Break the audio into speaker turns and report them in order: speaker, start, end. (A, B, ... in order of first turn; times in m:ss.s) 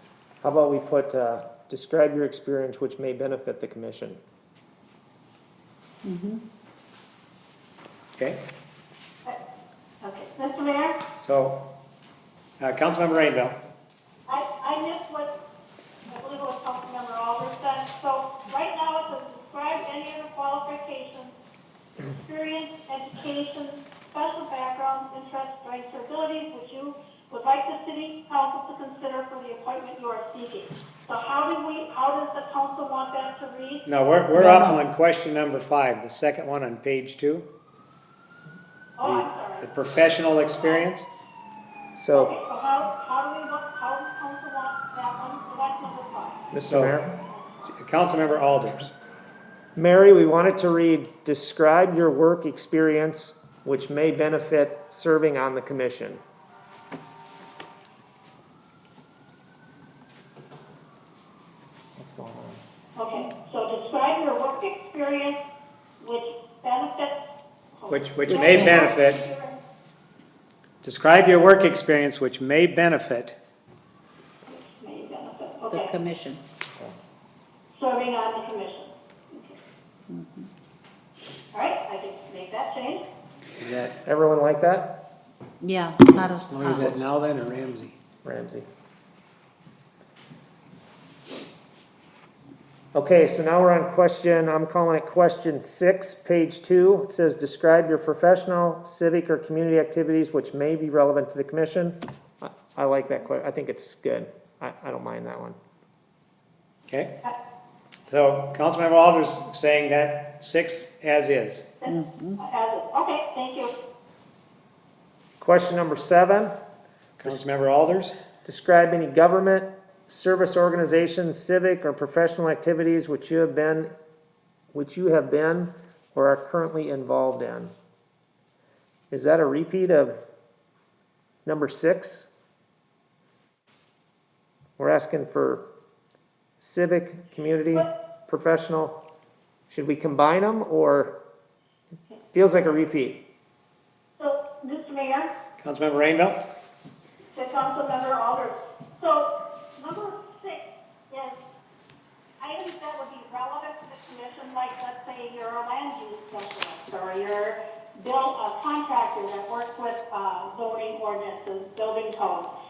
0:00.4-0:04.2 A
0:06.0-0:06.4 B
0:08.2-0:08.4 C
0:10.0-0:11.0 D
0:11.2-0:11.7 C
0:12.6-0:13.6 C
0:14.3-0:15.3 D
0:16.1-0:21.4 D
0:22.0-0:33.8 D
0:33.8-0:37.5 C
0:34.4-0:34.8 B
0:39.0-0:39.8 D
0:39.0-0:41.1 C
0:40.4-0:40.9 D
0:42.0-0:42.3 A
0:42.1-0:46.5 D
0:46.5-0:47.2 A
0:46.7-0:47.0 C
0:47.7-0:48.9 C
0:49.8-0:56.2 A
1:02.0-1:02.6 A
1:03.0-1:05.4 D
1:06.0-1:09.6 D
1:07.9-1:09.2 C
1:08.3-1:08.8 B
1:10.8-1:13.4 C
1:14.5-1:15.9 D
1:15.7-1:16.4 B
1:16.7-1:17.0 A
1:17.7-1:19.6 D
1:20.1-1:20.5 B
1:21.5-1:23.1 D
1:23.6-1:24.0 C
1:24.0-1:25.0 A
1:25.6-1:26.9 B
1:26.5-1:28.0 C
1:28.2-1:28.7 A
1:32.9-1:45.6 A
1:46.9-1:47.2 C
1:48.1-1:51.7 C
1:51.8-1:53.7 D
1:51.9-1:52.4 B
1:55.4-1:56.5 A
1:57.2-1:58.2 C
1:58.4-2:03.9 A
2:04.7-2:07.7 A
2:09.1-2:10.2 A
2:11.5-2:12.3 A
2:14.8-2:15.7 A
2:16.6-2:19.0 A
2:19.7-2:21.2 A
2:22.3-2:23.2 A
2:24.2-2:25.3 D
2:25.6-2:26.4 C
2:27.3-2:31.4 D
2:32.4-2:42.5 D